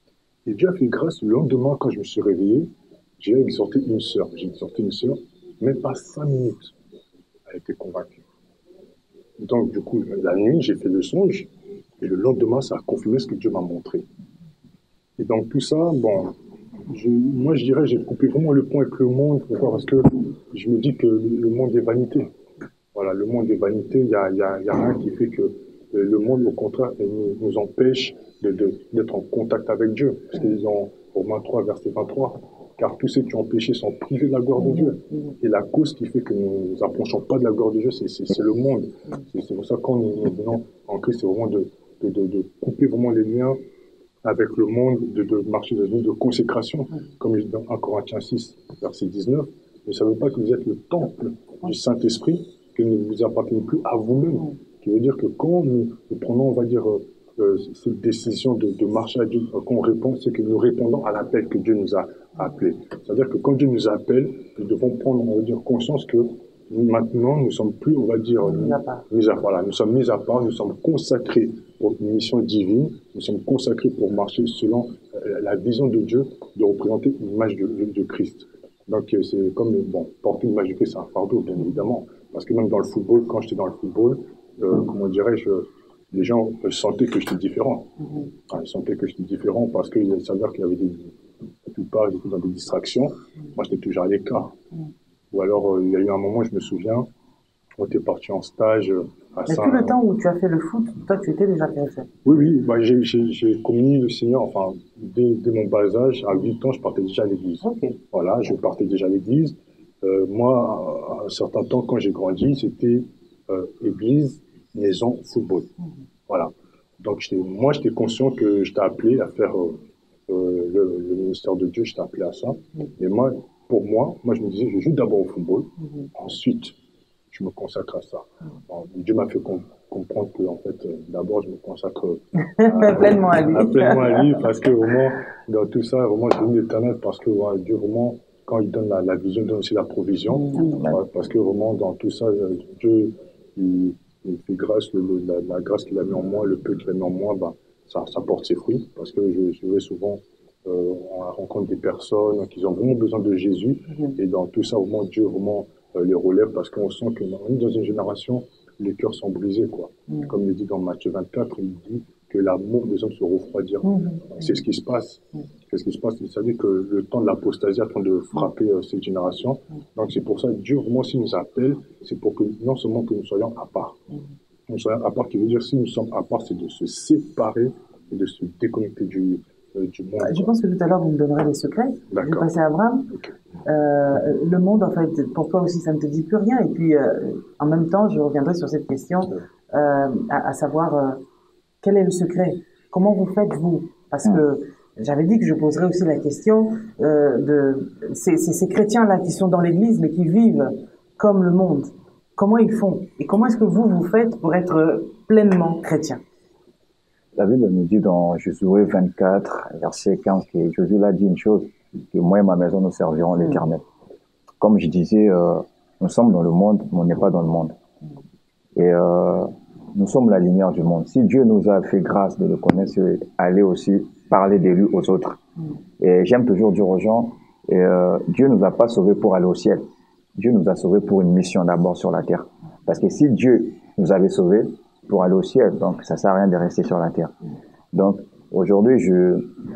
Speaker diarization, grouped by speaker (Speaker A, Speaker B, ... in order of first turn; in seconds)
Speaker A: 0.4-6.7, 7.5-8.2, 9.4-11.5, 12.0-14.0, 15.2-16.3, 16.9-22.3, 22.9-43.6, 44.2-87.9, 88.5-94.5, 95.3-97.0, 97.8-100.0, 102.2-115.7, 116.3-126.7, 127.3-174.0, 174.7-180.5, 182.1-182.5, 183.1-183.3
Speaker B: 68.4-69.0, 99.5-102.1, 107.6-108.0, 132.6-134.4, 163.8-164.6, 180.2-183.1, 183.6-191.2, 191.8-206.2, 213.4-213.6
Speaker C: 207.3-213.8, 214.6-217.7, 218.8-225.4, 226.0-229.8, 230.3-237.3, 237.9-239.5